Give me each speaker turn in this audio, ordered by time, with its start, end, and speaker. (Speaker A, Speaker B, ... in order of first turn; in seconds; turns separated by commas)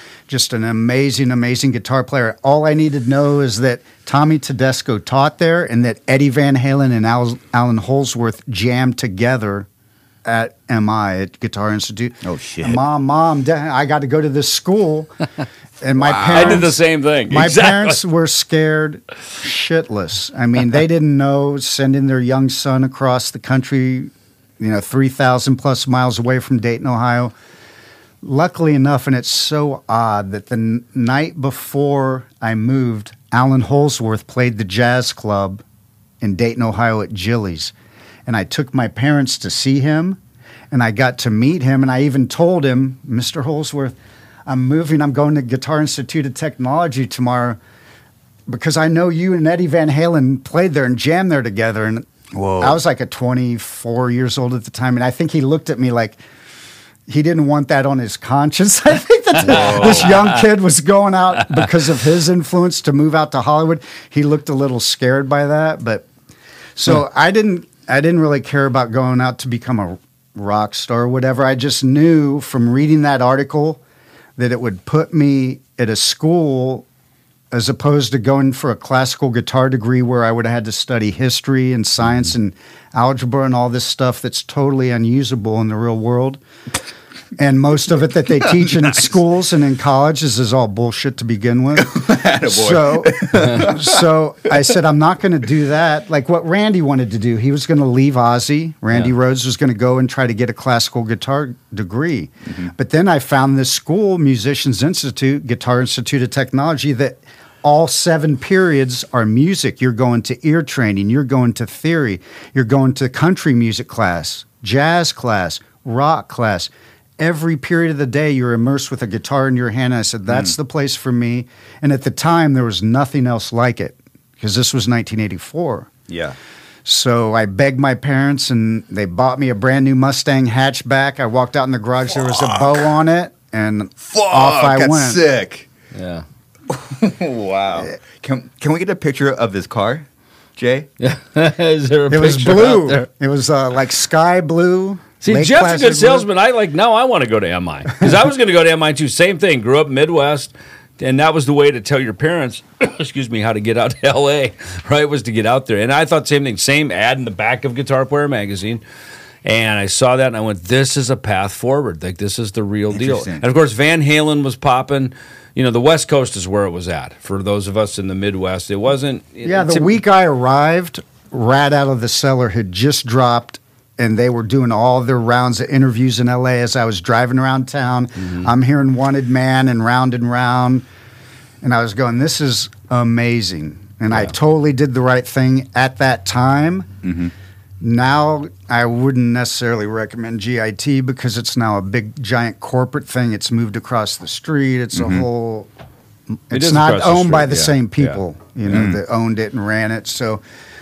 Speaker A: 0.3-9.7, Speaker A: 10.2-15.1, Speaker B: 12.2-12.8, Speaker A: 15.8-16.7, Speaker B: 16.0-16.7, Speaker C: 16.3-18.0, Speaker A: 17.3-27.3, Speaker A: 28.2-35.6, Speaker A: 36.2-37.7, Speaker A: 38.2-40.2, Speaker A: 40.7-44.0, Speaker A: 44.5-47.6, Speaker A: 48.5-52.1, Speaker B: 52.3-52.8, Speaker A: 52.6-56.2, Speaker A: 57.1-66.0, Speaker C: 59.4-60.4, Speaker B: 59.5-60.2, Speaker C: 61.4-61.7, Speaker A: 66.8-73.8, Speaker A: 74.4-76.8, Speaker A: 77.5-86.4, Speaker A: 87.4-125.9, Speaker B: 91.8-94.1, Speaker B: 102.5-102.7, Speaker B: 120.3-120.5, Speaker B: 126.1-126.3, Speaker A: 126.8-135.2, Speaker B: 132.3-132.9, Speaker B: 134.0-135.7, Speaker C: 135.9-136.2, Speaker B: 136.7-140.1, Speaker B: 140.6-140.9, Speaker C: 141.0-143.1, Speaker A: 142.1-146.3, Speaker C: 145.2-158.8, Speaker C: 159.4-170.0, Speaker B: 162.9-163.4, Speaker A: 169.4-180.8, Speaker A: 181.6-186.9, Speaker B: 187.0-187.3, Speaker A: 187.8-195.7, Speaker B: 194.9-195.2, Speaker A: 196.5-200.4, Speaker C: 196.5-198.2, Speaker B: 198.7-199.0